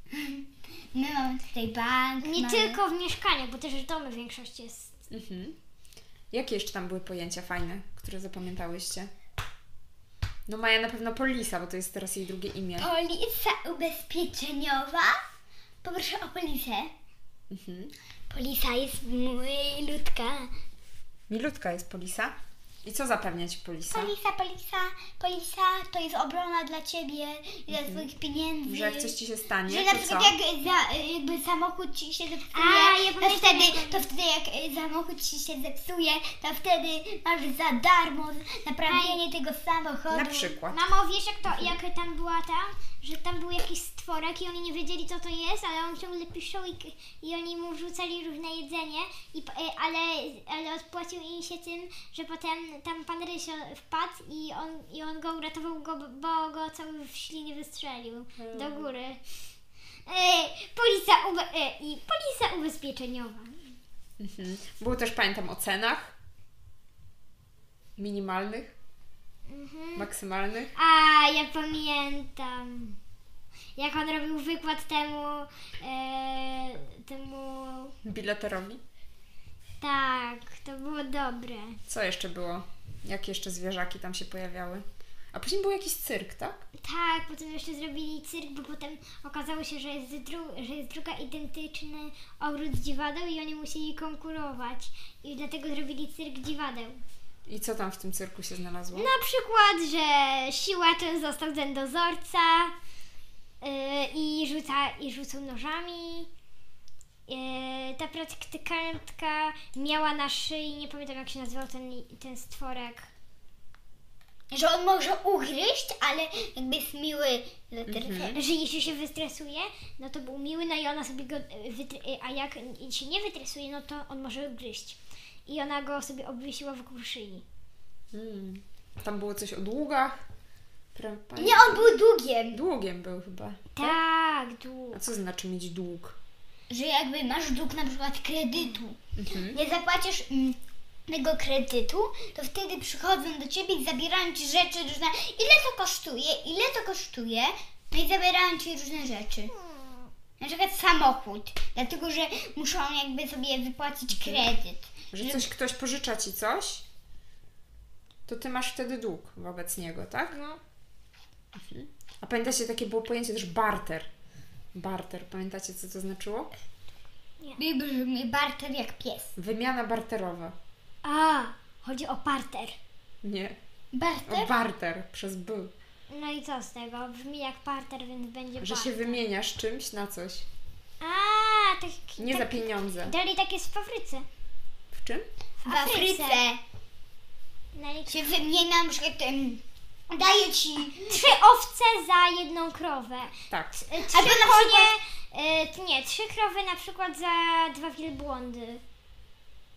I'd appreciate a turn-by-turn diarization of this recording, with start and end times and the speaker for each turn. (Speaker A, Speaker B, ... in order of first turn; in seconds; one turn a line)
Speaker A: 0.1-2.8
Speaker B: 2.2-4.9
Speaker C: 5.1-5.5
Speaker C: 6.3-9.1
Speaker C: 10.5-12.9
Speaker A: 12.8-15.2
Speaker A: 15.8-16.9
Speaker C: 17.5-17.9
Speaker A: 18.3-20.5
Speaker C: 21.3-24.1
Speaker A: 23.9-29.1
Speaker C: 27.7-28.1
Speaker C: 28.6-30.3
Speaker A: 29.6-40.5
Speaker B: 32.5-34.0
Speaker B: 38.8-39.2
Speaker C: 40.1-40.8
Speaker B: 40.7-59.2
Speaker C: 41.5-41.7
Speaker C: 58.4-58.9
Speaker B: 60.0-63.5
Speaker C: 64.2-66.1
Speaker C: 68.0-68.7
Speaker B: 69.5-70.1
Speaker C: 70.0-70.7
Speaker B: 70.8-73.0
Speaker B: 73.8-77.9
Speaker C: 78.0-78.8
Speaker B: 79.8-81.8
Speaker C: 81.9-86.7
Speaker B: 86.8-97.0
Speaker C: 97.5-99.1
Speaker B: 98.9-102.7
Speaker B: 103.6-106.3
Speaker B: 107.3-113.1
Speaker A: 114.5-118.4
Speaker C: 117.9-118.3
Speaker B: 118.3-127.4
Speaker C: 128.1-130.2
Speaker C: 130.9-132.0
Speaker A: 131.4-132.6
Speaker C: 132.5-134.0
Speaker B: 133.7-135.0
Speaker C: 134.9-136.2
Speaker A: 136.7-139.0
Speaker C: 139.2-139.6
Speaker A: 139.5-149.5
Speaker A: 150.4-155.5
Speaker C: 154.1-154.5
Speaker C: 155.1-156.8
Speaker C: 158.3-160.3
Speaker B: 160.3-160.6
Speaker C: 161.5-164.1
Speaker C: 164.7-166.5
Speaker A: 167.6-169.3
Speaker C: 169.4-170.5
Speaker B: 171.0-172.8
Speaker C: 173.2-173.6
Speaker A: 173.9-174.5
Speaker C: 174.3-175.7
Speaker B: 176.1-179.2
Speaker C: 178.6-180.4
Speaker B: 181.0-184.2
Speaker C: 182.2-183.1
Speaker C: 184.9-185.3
Speaker B: 185.6-186.4
Speaker A: 185.7-186.6
Speaker B: 187.7-188.2
Speaker A: 188.1-191.3
Speaker B: 190.9-198.8
Speaker C: 193.5-193.8
Speaker A: 194.1-194.9